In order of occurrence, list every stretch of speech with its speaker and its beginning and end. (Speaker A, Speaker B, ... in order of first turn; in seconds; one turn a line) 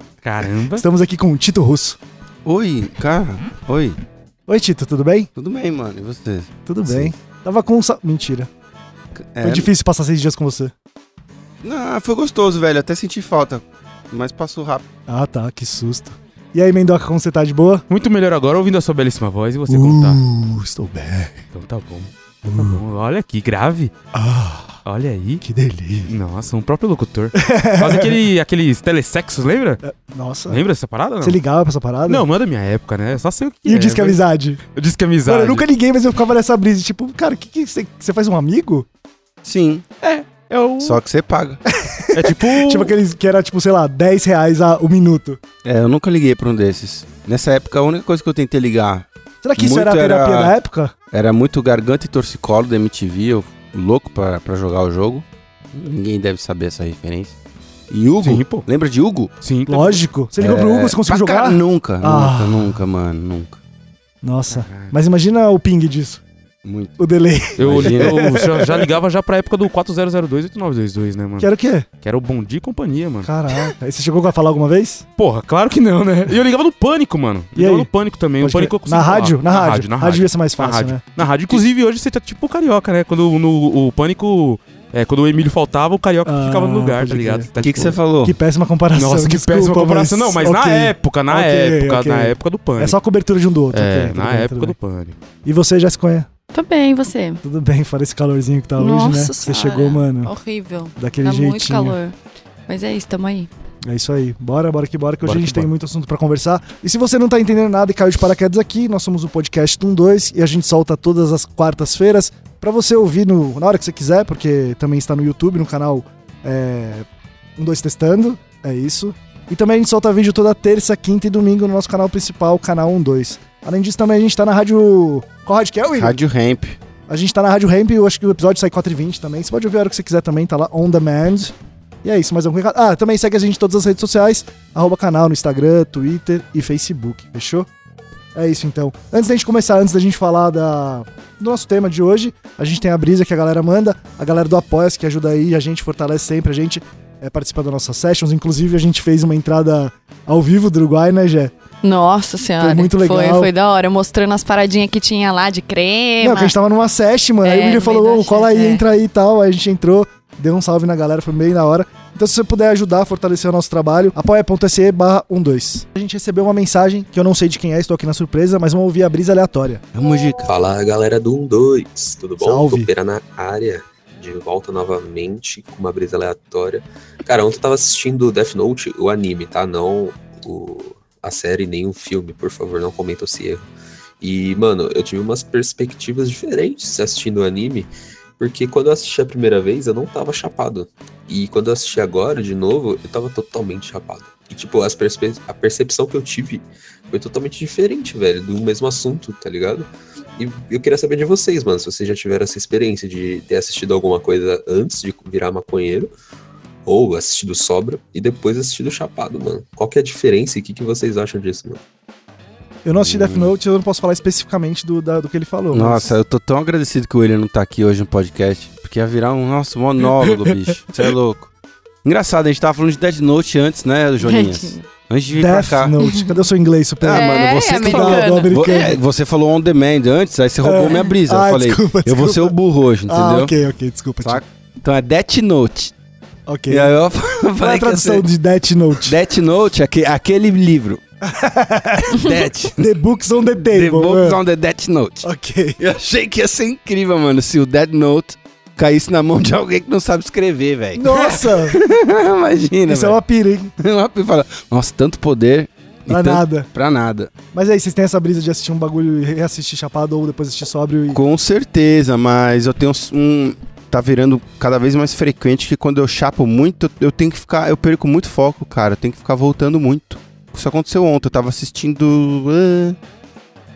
Speaker A: 0.2-0.8
Speaker B: 0.7-2.0
Speaker C: 2.4-4.0
Speaker B: 4.5-5.3
Speaker C: 5.3-7.1
Speaker B: 6.7-8.5
Speaker C: 9.2-9.7
Speaker B: 9.4-10.7
Speaker C: 11.6-14.8
Speaker B: 15.1-17.8
Speaker A: 17.9-20.2
Speaker B: 19.7-21.4
Speaker A: 21.5-23.9
Speaker B: 22.4-22.8
Speaker B: 24.1-24.8
Speaker A: 24.8-25.4
Speaker B: 25.4-26.1
Speaker A: 26.1-29.8
Speaker B: 27.3-28.2
Speaker B: 29.8-30.6
Speaker A: 30.5-31.4
Speaker B: 31.2-32.2
Speaker A: 32.0-34.2
Speaker B: 33.6-34.6
Speaker A: 34.7-35.6
Speaker B: 35.2-38.9
Speaker C: 39.4-39.9
Speaker A: 40.0-41.0
Speaker C: 40.8-41.6
Speaker B: 41.7-45.4
Speaker A: 42.1-42.9
Speaker C: 45.6-50.5
Speaker B: 49.4-50.9
Speaker C: 51.1-57.3
Speaker C: 57.9-59.3
Speaker A: 58.2-58.7
Speaker A: 59.4-60.0
Speaker B: 59.7-62.8
Speaker C: 60.4-63.6
Speaker B: 64.2-66.2
Speaker A: 64.5-64.9
Speaker C: 66.6-67.0
Speaker B: 67.0-68.9
Speaker C: 67.6-68.4
Speaker A: 67.6-73.6
Speaker B: 71.4-71.9
Speaker B: 73.2-75.0
Speaker A: 75.2-88.0
Speaker B: 77.5-77.9
Speaker B: 78.4-81.6
Speaker B: 86.2-87.5
Speaker C: 87.6-88.3
Speaker B: 88.2-94.8
Speaker A: 88.9-93.0
Speaker A: 93.7-95.2
Speaker B: 95.4-96.3
Speaker D: 96.5-97.4
Speaker B: 97.4-100.3
Speaker D: 98.8-102.2
Speaker B: 101.0-102.0
Speaker D: 102.7-103.5
Speaker B: 103.8-117.0
Speaker A: 105.2-105.7
Speaker B: 117.6-126.2
Speaker C: 125.9-126.8
Speaker B: 127.1-137.7
Speaker B: 138.3-151.5
Speaker D: 151.8-156.5
Speaker B: 152.6-153.5
Speaker B: 156.2-169.8
Speaker D: 157.4-158.8
Speaker C: 169.9-170.5
Speaker E: 170.5-183.7
Speaker B: 172.4-172.9
Speaker E: 184.2-206.1
Speaker E: 206.8-211.8
Speaker B: 212.8-216.1
Speaker C: 213.0-213.5
Speaker C: 215.7-221.5
Speaker C: 222.0-226.0
Speaker D: 224.2-224.8
Speaker B: 225.3-229.0
Speaker D: 226.0-226.3
Speaker C: 227.0-233.5
Speaker D: 227.1-228.9
Speaker B: 230.6-234.4
Speaker C: 234.2-235.9
Speaker B: 236.5-236.9
Speaker C: 236.7-238.2
Speaker B: 237.6-239.2
Speaker C: 239.0-241.0
Speaker B: 241.2-244.4
Speaker C: 242.1-242.8
Speaker C: 243.7-253.2
Speaker B: 245.2-245.8
Speaker B: 250.9-251.8
Speaker B: 252.9-253.7
Speaker C: 253.8-257.3
Speaker B: 256.1-256.7
Speaker B: 257.5-261.2
Speaker C: 261.1-273.0